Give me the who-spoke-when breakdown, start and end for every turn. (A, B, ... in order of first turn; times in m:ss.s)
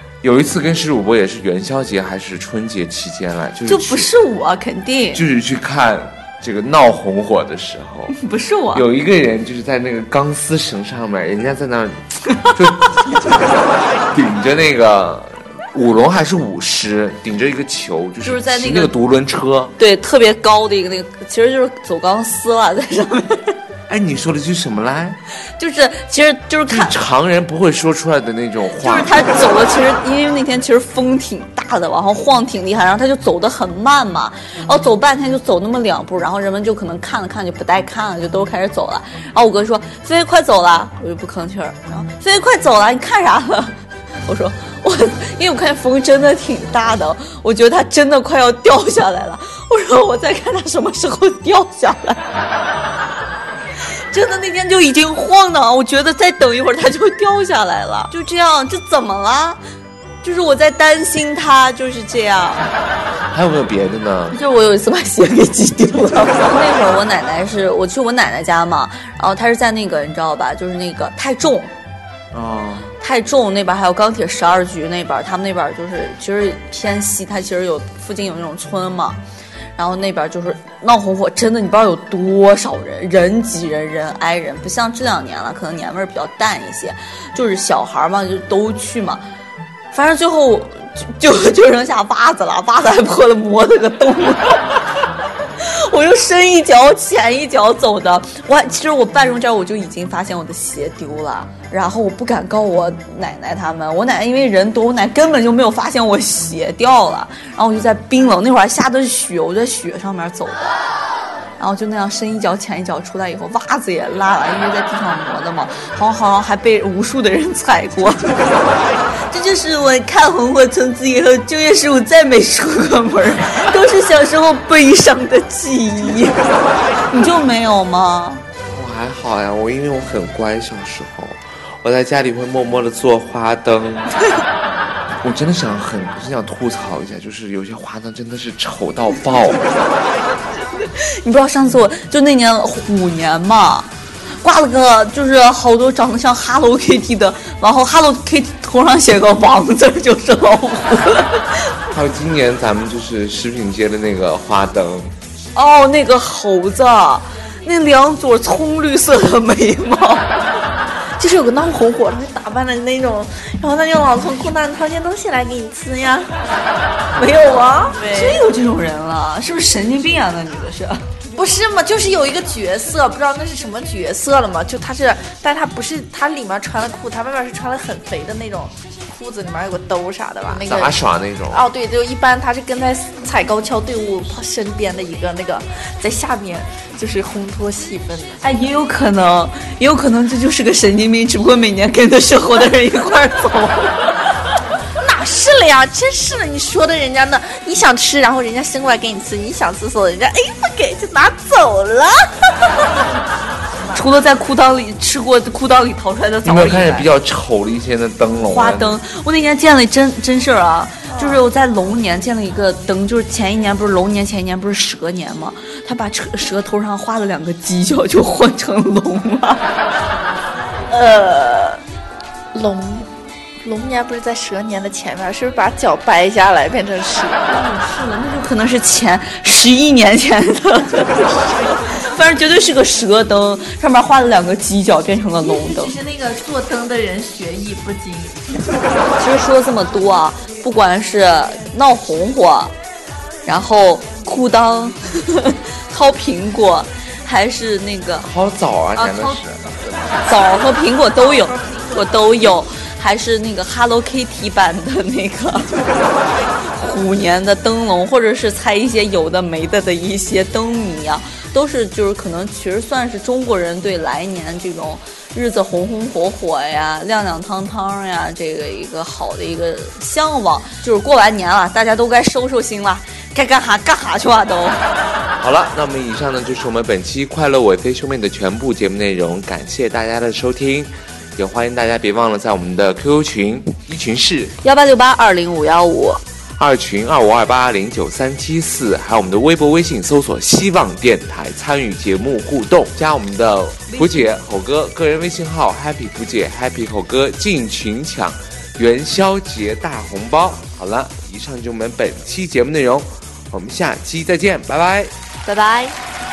0:00.2-0:04.1 A
0:03.7-0:05.2 B
0:05.1-0:08.1 A
0:08.1-0:08.8 B
0:08.7-0:13.1 A
0:14.1-0:19.7 A
0:18.2-0:18.9 B
0:19.8-0:23.6 B
0:23.9-0:25.2 A
0:25.6-0:27.0 B
0:26.7-0:29.2 A
0:28.8-0:43.7 B
0:44.2-0:52.2 B
0:54.1-0:59.6 B
1:00.2-1:02.6 B
1:03.3-1:04.4 A
1:04.3-1:11.7 B
1:12.3-1:12.9 A
1:13.0-1:19.2 B
1:19.8-1:29.2 B
1:29.9-1:34.7 B
1:35.6-1:50.8 B
1:51.6-1:58.3 B
1:59.3-2:06.4 B
2:07.1-2:08.4 B
2:08.7-2:14.1 A
2:15.2-2:19.6 A
2:20.8-2:23.9 B
2:24.4-2:31.7 B
2:31.9-2:35.1 A
2:35.5-2:40.4 B
2:41.2-2:46.3 C
2:47.1-2:47.8 A
2:47.2-2:51.0 B
2:47.9-2:48.4 C
2:51.3-3:08.4 C
3:00.6-3:01.7 A
3:08.4-3:14.2 B
3:15.0-3:23.2 C
3:23.7-3:24.0 C
3:23.9-3:27.1 B
3:26.4-3:29.0 A
3:28.5-3:39.6 B
3:31.1-3:31.4 C
3:40.9-3:41.8 B
3:42.5-3:43.1 C
3:43.6-3:47.6 C
3:47.5-3:55.9 B
3:55.4-3:58.4 C
3:59.1-4:02.7 B
4:03.4-4:08.3 B
4:08.2-4:09.8 A
4:09.0-4:09.4 B
4:10.2-4:15.7 B
4:11.1-4:12.5 C
4:16.6-4:34.8 B
4:35.4-4:44.6 A
4:44.6-4:46.2 B
4:46.6-5:05.1 A
4:53.9-4:54.2 B
5:05.5-5:05.9 B